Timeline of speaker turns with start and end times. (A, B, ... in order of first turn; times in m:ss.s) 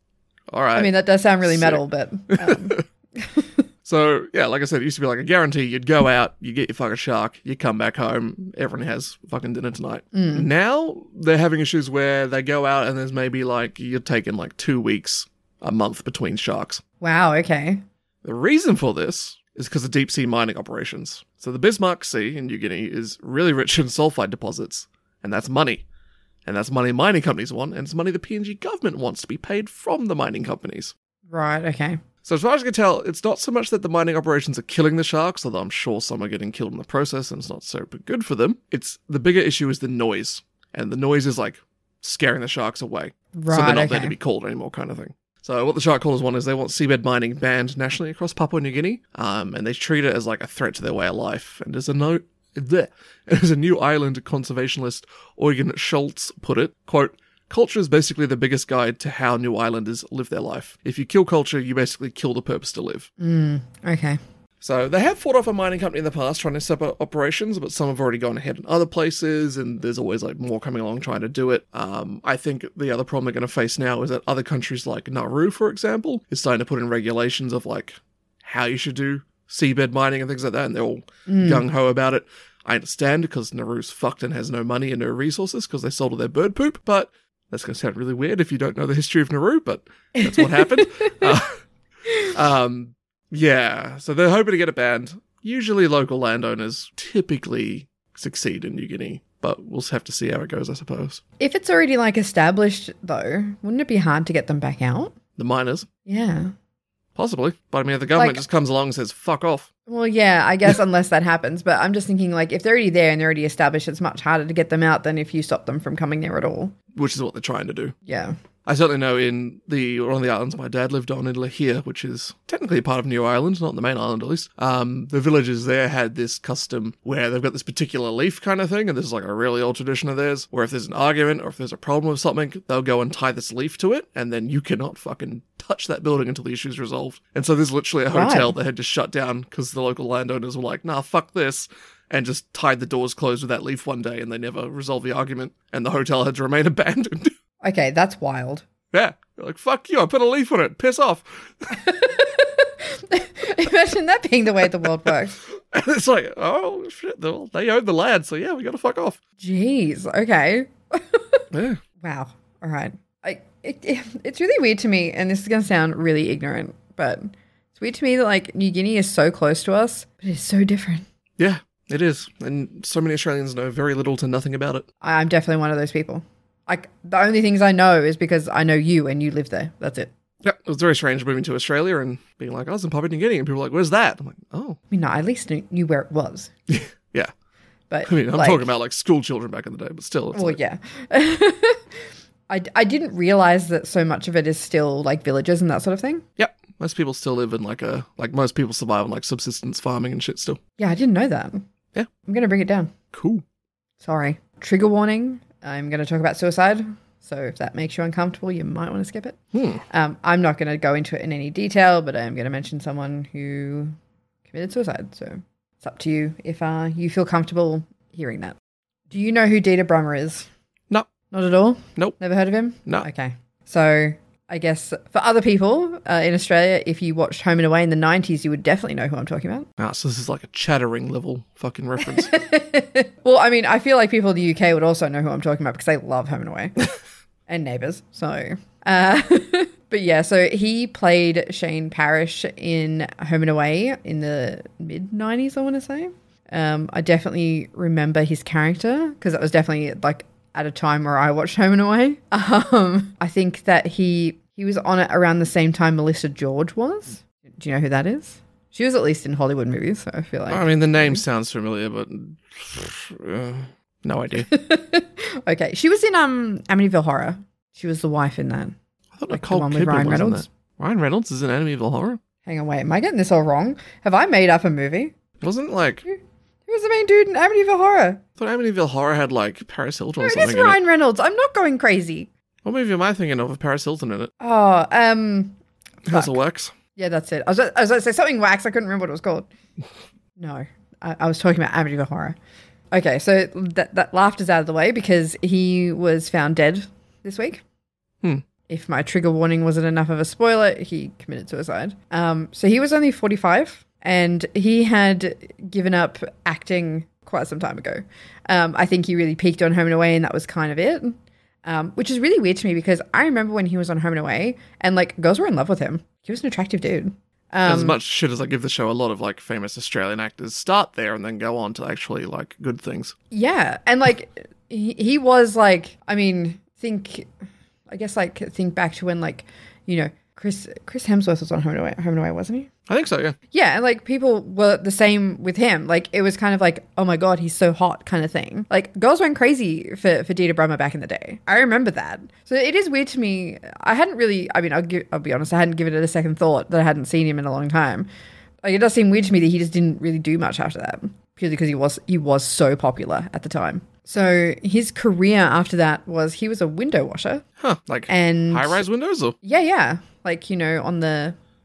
0:00.5-0:01.8 A
0:00.8-0:03.6 B
0:02.3-0:02.8 A
0:03.8-0:16.8 A
0:10.1-0:10.5 B
0:17.0-0:17.8 B
0:18.2-0:25.8 A
0:26.4-0:30.9 A
0:31.3-0:32.0 B
0:32.2-1:03.1 A
0:43.3-0:44.1 B
1:03.2-1:04.2 B
1:04.6-1:31.5 A
1:21.3-1:21.6 B
1:30.2-1:31.3 B
1:32.3-1:41.2 A
1:41.4-1:45.1 B
1:45.4-1:45.9 A
1:46.0-1:46.5 B
1:47.2-1:49.7 A
1:48.1-1:48.4 B
1:49.9-1:56.7 B
1:56.9-1:57.9 A
1:58.0-1:58.4 B
1:58.6-2:27.3 A
2:18.1-2:18.5 B
2:27.6-2:28.6 B
2:28.9-2:31.7 A
2:31.7-2:35.4 B
2:35.4-2:39.2 A
2:39.4-2:41.4 B
2:41.5-2:41.8 A
2:42.0-2:51.0 B
2:51.4-2:54.8 A
2:55.0-3:00.1 B
3:00.4-3:04.8 A
3:04.9-3:06.5 B
3:06.7-3:07.3 A
3:07.9-3:08.7 B
3:08.0-3:10.6 A
3:10.3-3:16.2 B
3:16.4-3:20.6 A
3:20.8-3:21.6 B
3:22.2-3:22.9 B
3:23.1-3:23.4 A
3:24.0-3:29.4 B
3:29.5-3:29.8 A
3:29.9-3:34.0 B
3:34.5-3:38.6 B
3:39.1-3:40.5 B
3:41.3-3:49.7 B
3:49.8-3:52.4 A
3:52.0-3:56.8 B
3:57.5-4:21.2 B
4:20.5-4:24.5 A
4:24.4-4:28.8 B
4:29.2-4:32.2 A
4:29.3-4:30.4 B
4:32.4-4:35.1 B
4:35.4-4:36.0 A
4:36.0-4:38.2 B
4:38.4-4:40.8 A
4:40.2-4:42.3 B
4:42.6-4:44.3 A
4:44.4-4:45.6 B
4:46.0-4:46.7 A
4:46.1-4:46.4 B
4:47.0-4:49.5 B
4:50.4-4:52.4 B
4:52.9-4:57.6 B
4:58.7-5:18.0 B
5:17.6-5:23.1 A
5:23.3-5:27.3 B
5:27.9-5:32.7 B
5:32.9-5:33.4 A
5:33.5-5:48.1 B
5:48.6-5:57.4 B
5:57.6-5:59.4 A
5:58.1-5:58.8 B
5:59.4-6:01.4 B